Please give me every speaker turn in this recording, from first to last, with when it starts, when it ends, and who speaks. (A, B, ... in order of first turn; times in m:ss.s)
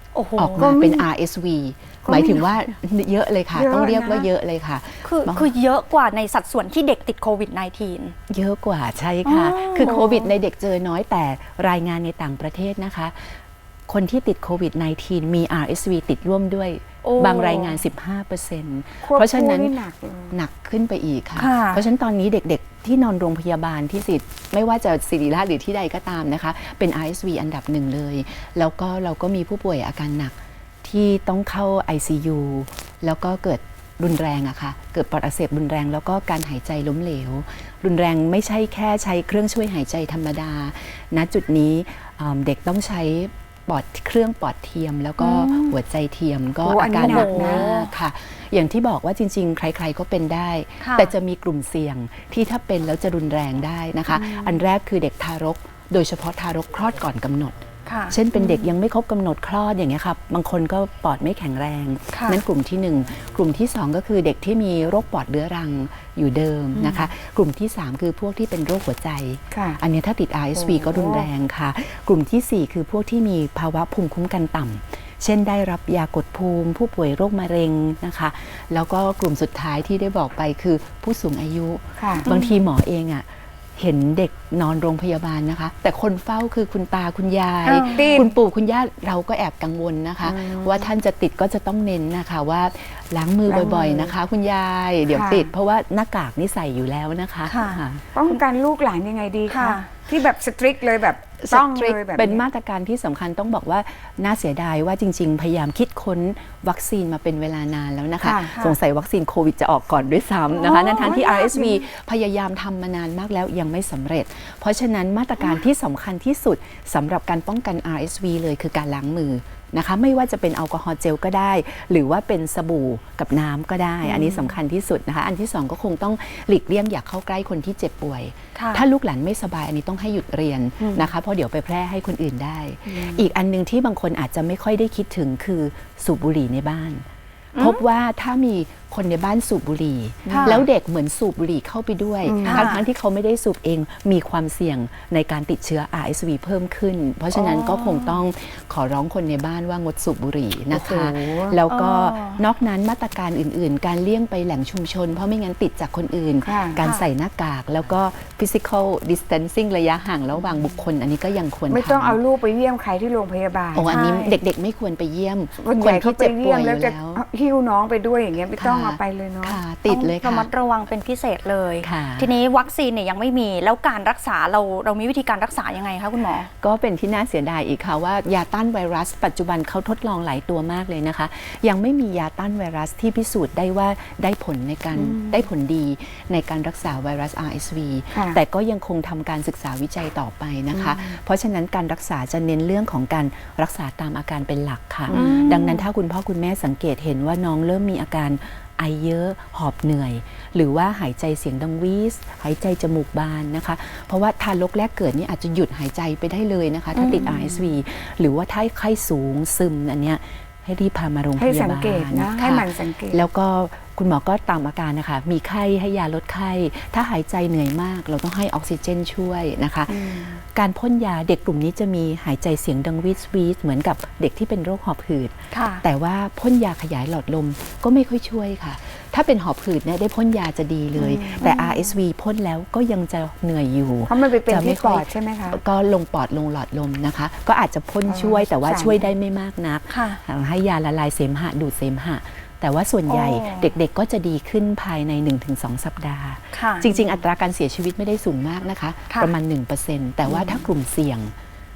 0:00.1-0:00.7 A
0:00.4-0:05.5 B
0:00.6-0:01.1 C
0:02.0-0:02.6 C
0:03.5-0:04.3 C
0:05.0-0:08.1 A
0:08.3-0:19.8 B
0:09.2-0:10.3 A
0:17.0-0:17.8 A
0:19.0-0:20.3 C
0:20.3-1:38.1 B
0:21.4-0:21.8 A
0:45.2-0:45.7 C
0:46.6-0:47.7 C
0:47.0-0:47.9 A
0:50.8-0:51.1 A
0:54.2-0:54.5 C
0:57.8-0:58.7 A
1:02.1-1:02.4 A
1:06.8-1:07.1 C
1:09.5-1:09.8 C
1:10.5-1:11.3 C
1:22.0-1:22.2 C
1:22.2-1:22.7 A
1:27.6-1:28.2 A
1:27.8-1:28.4 C
1:30.2-1:30.9 C
1:33.5-1:34.1 C
1:35.1-1:35.5 C
1:37.5-1:37.8 A
1:38.1-1:42.4 C
1:39.5-1:39.9 A
1:41.4-2:17.0 B
1:48.2-1:48.6 C
1:50.6-1:51.3 A
1:50.7-1:51.8 C
2:08.5-2:08.8 A
2:10.8-2:11.1 C
2:12.9-2:13.2 C
2:17.5-2:17.8 A
2:17.6-2:42.2 B
2:20.2-2:20.6 C
2:20.3-2:20.6 A
2:22.2-2:22.8 C
2:22.4-2:22.8 A
2:27.3-2:28.2 A
2:30.7-2:31.6 C
2:31.7-2:32.4 A
2:36.4-2:36.8 C
2:41.7-2:43.9 C
2:43.7-2:47.2 B
2:43.9-2:44.4 A
2:45.6-2:49.6 C
2:48.6-2:50.5 B
2:49.8-2:56.5 A
2:51.8-2:52.3 B
2:56.6-4:11.3 B
3:04.9-3:05.5 C
3:08.1-3:08.4 C
3:10.7-3:11.2 C
3:15.1-3:15.8 C
3:15.2-3:15.8 A
3:26.9-3:27.3 A
3:27.1-3:27.8 C
3:31.4-3:33.3 C
3:39.9-3:40.4 C
3:45.5-3:45.8 A
3:51.1-3:51.5 A
3:51.1-3:51.9 C
3:54.1-3:55.6 C
3:58.1-3:59.1 C
3:59.9-4:00.2 A
4:03.1-4:03.7 A
4:06.5-4:07.0 A
4:10.2-4:10.6 C